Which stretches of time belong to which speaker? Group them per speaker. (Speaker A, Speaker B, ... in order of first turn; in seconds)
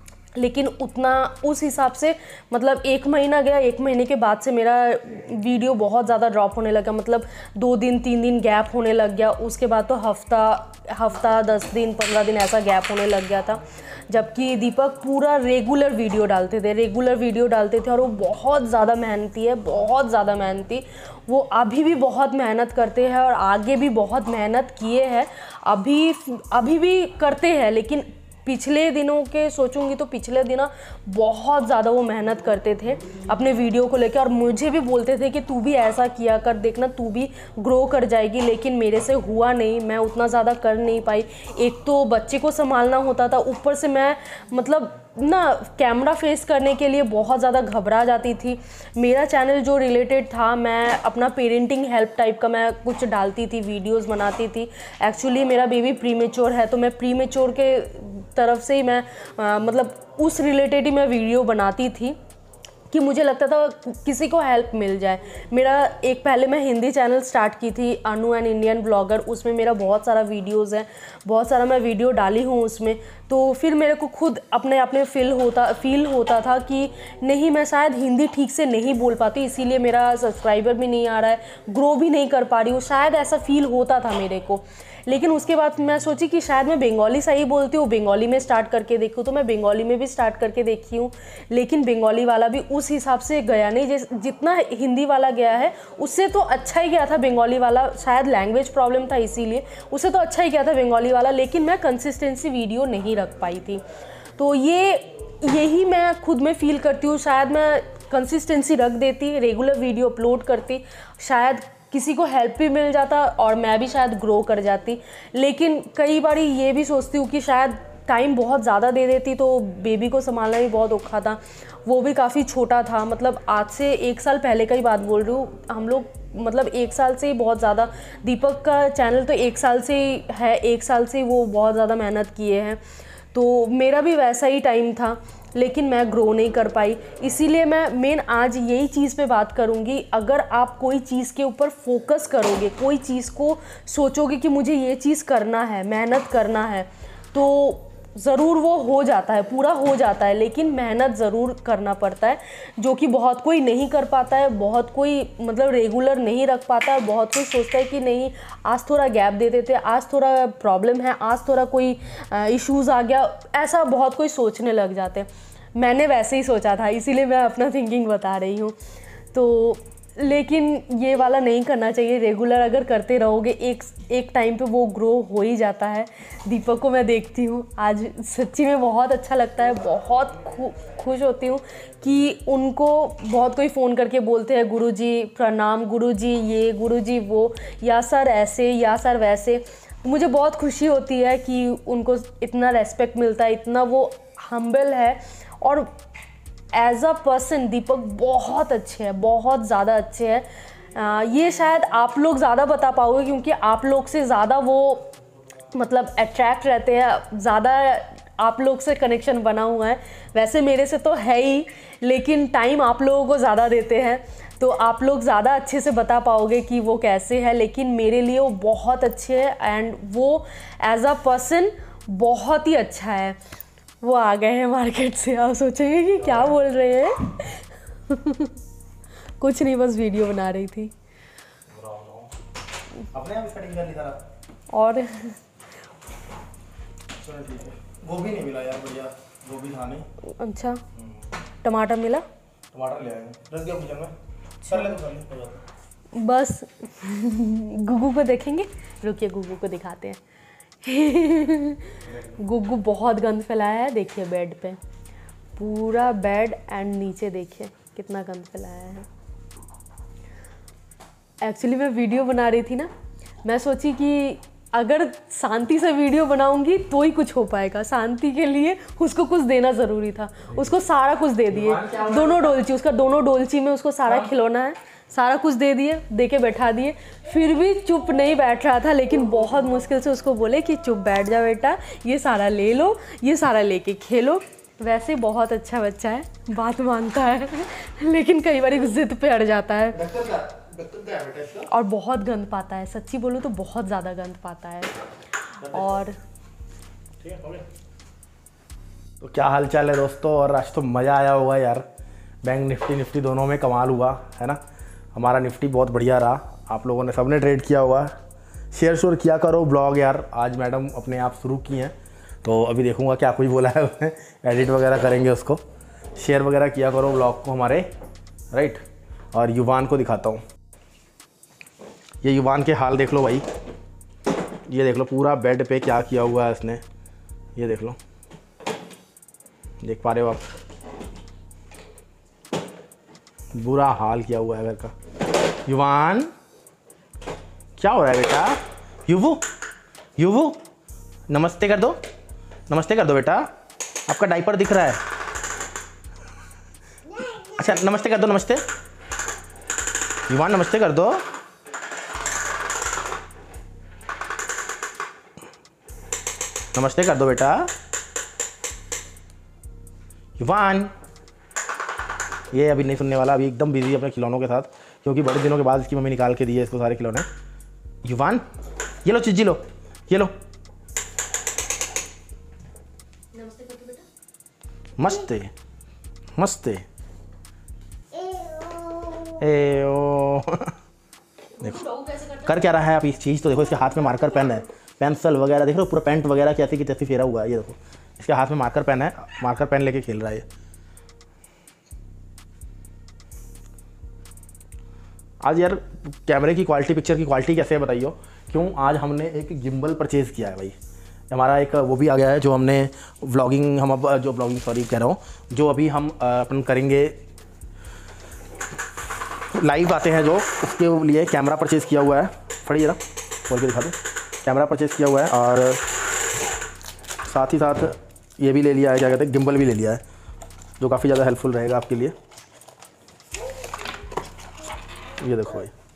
Speaker A: 0.3-62.1, 62.9-103.8, 104.4-132.8, 133.3-168.7, 169.3-195.9, 196.7-205.1, 205.7-223.4, 224.0-228.5, 229.4-230.9, 234.7-235.4, 240.3-240.8, 241.6-242.2, 244.7-244.9, 246.1-250.2, 250.8-254.8, 255.6-259.1, 261.4-262.9, 263.4-290.0, 291.6-295.0, 295.5-296.2, 373.3-374.0, 381.6-382.5
Speaker B: 231.7-232.3, 233.1-234.2, 237.2-240.1, 242.7-244.1, 244.7-245.6, 252.1-252.4, 271.5-272.5, 289.9-291.7, 295.7-296.0, 297.2-297.6, 299.2-301.9, 302.4-304.6, 305.1-308.1, 308.7-315.6, 316.1-317.9, 318.5-318.8, 319.3-320.4, 322.2-323.4, 324.7-326.8, 327.6-328.0, 329.8-330.5, 333.5-334.9, 335.6-336.3, 337.8-339.4, 340.2-340.6, 341.3-342.0, 342.7-343.5, 344.1-345.0, 347.4-348.6, 350.3-351.2, 356.7-357.7, 360.4-360.9, 362.5-367.3, 368.0-368.4, 369.0-370.3, 375.0-375.5, 376.4-376.8, 379.4-380.7, 382.4-390.4, 395.4-400.8, 401.3-407.2, 409.5-415.9, 417.2-420.0, 420.8-422.1, 425.2-425.7